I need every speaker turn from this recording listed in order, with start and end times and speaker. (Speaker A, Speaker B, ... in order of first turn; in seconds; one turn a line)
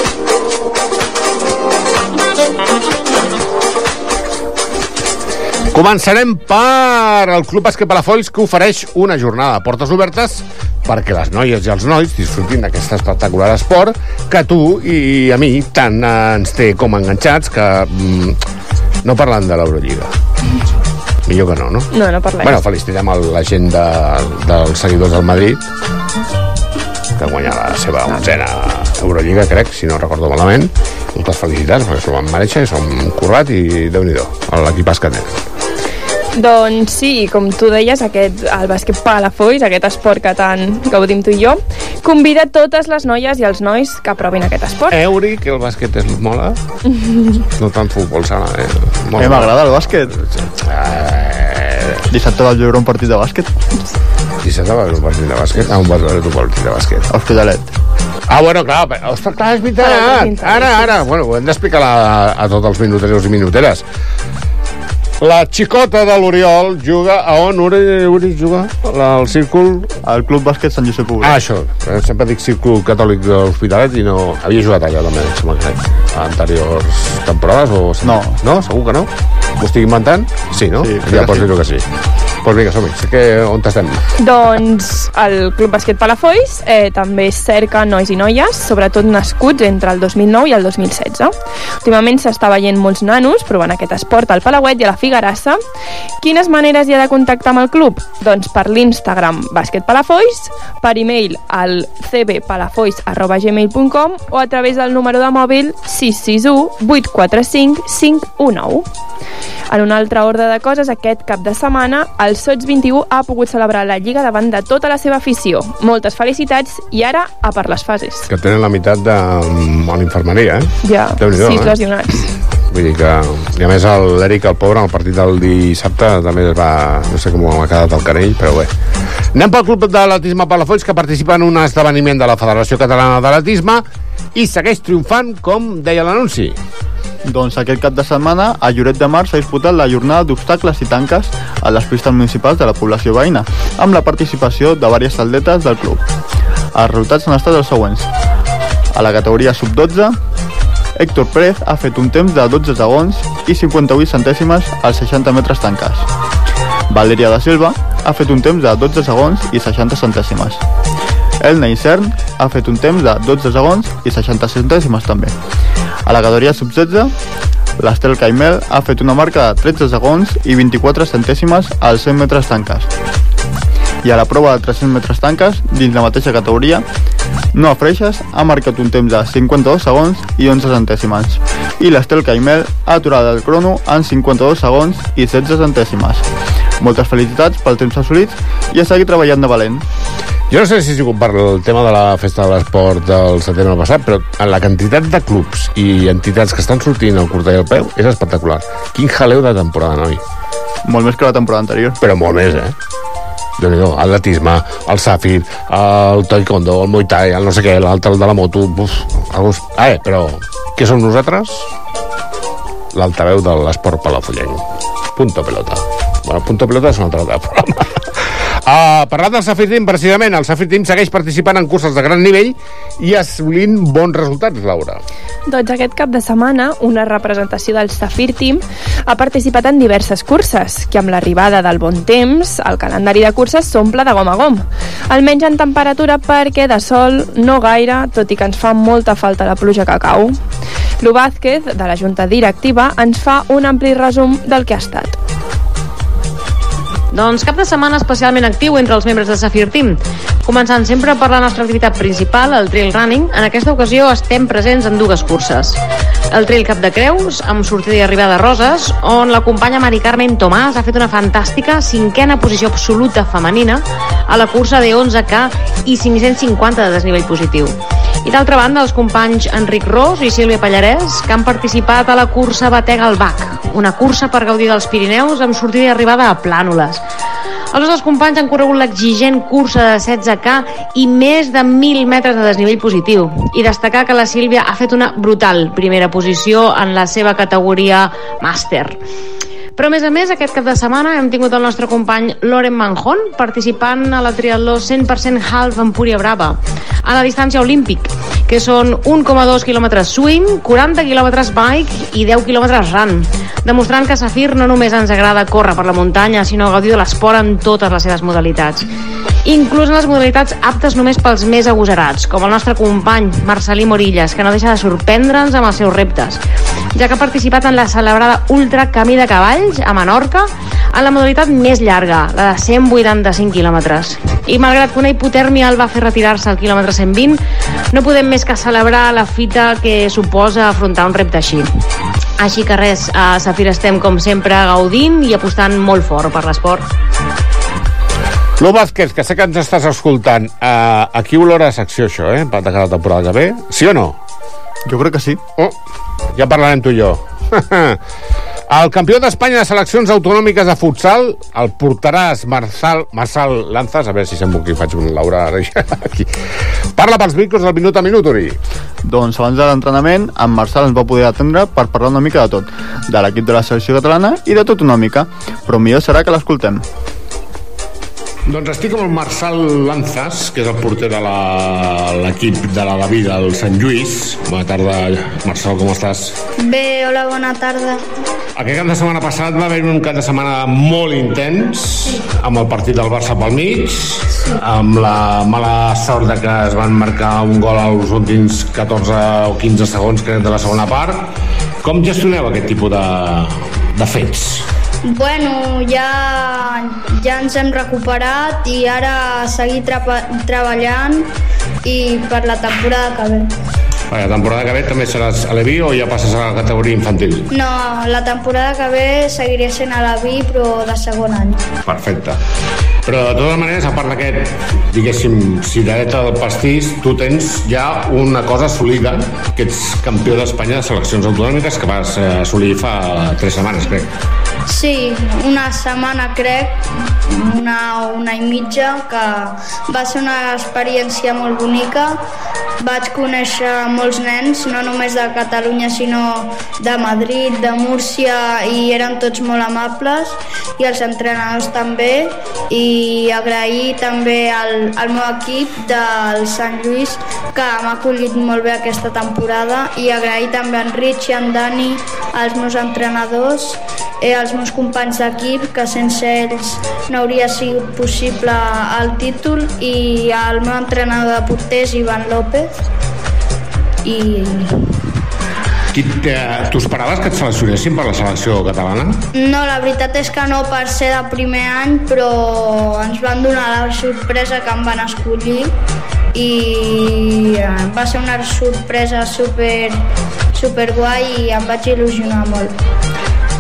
Speaker A: 5.7-18.4
Speaker A: 19.0-20.1
Speaker A: 21.3-25.6
Speaker B: 21.9-22.5
Speaker A: 27.2-35.3
Speaker B: 36.4-45.0
Speaker A: 44.9-46.6
Speaker B: 47.0-47.3
Speaker A: 47.6-52.0
Speaker C: 49.2-50.2
Speaker C: 52.1-53.5
Speaker A: 54.4-57.1
Speaker C: 57.1-57.7
Speaker A: 58.3-63.9
Speaker B: 59.8-61.0
Speaker A: 65.2-69.9
Speaker C: 70.0-71.4
Speaker A: 71.2-81.8
Speaker C: 78.0-78.4
Speaker C: 80.8-81.5
Speaker A: 82.4-84.1
Speaker B: 84.2-95.6
Speaker B: 96.2-108.9
Speaker B: 109.7-118.3
Speaker A: 118.3-121.8
Speaker B: 120.8-122.3
Speaker A: 122.7-128.7
Speaker A: 129.3-136.6
Speaker C: 137.3-146.0
Speaker C: 146.7-148.1
Speaker C: 148.9-150.2
Speaker C: 151.0-156.1
Speaker C: 156.9-160.6
Speaker C: 161.4-165.3
Speaker C: 166.1-167.1
Speaker C: 167.8-172.9
Speaker C: 174.0-176.8
Speaker C: 177.5-186.3
Speaker C: 186.8-189.8
Speaker A: 190.5-200.2
Speaker C: 200.8-202.0
Speaker A: 202.0-202.8
Speaker A: 203.6-211.7
Speaker A: 212.9-214.6
Speaker A: 215.2-218.0
Speaker A: 218.7-225.0
Speaker B: 225.5-240.4
Speaker B: 241.0-245.2
Speaker D: 247.1-255.8
Speaker D: 256.3-277.0
Speaker D: 277.7-289.0
Speaker D: 289.8-308.9
Speaker D: 309.4-316.4
Speaker D: 316.9-327.4
Speaker D: 327.9-331.7
Speaker D: 332.4-336.8
Speaker A: 338.6-344.2
Speaker C: 344.9-345.4
Speaker A: 346.4-348.0
Speaker A: 348.7-356.3
Speaker A: 357.0-358.6
Speaker C: 359.0-366.8
Speaker A: 368.5-376.4
Speaker E: 376.6-378.0
Speaker A: 378.6-391.3
Speaker A: 391.8-394.7
Speaker E: 395.1-401.3
Speaker E: 401.8-403.5
Speaker A: 404.1-407.5
Speaker E: 407.5-411.6
Speaker A: 411.9-412.4
Speaker A: 413.1-424.1
Speaker E: 424.7-432.2
Speaker E: 432.8-462.7
Speaker E: 464.1-465.0
Speaker A: 465.9-469.2
Speaker E: 469.4-475.7
Speaker E: 476.4-480.0
Speaker E: 480.5-482.7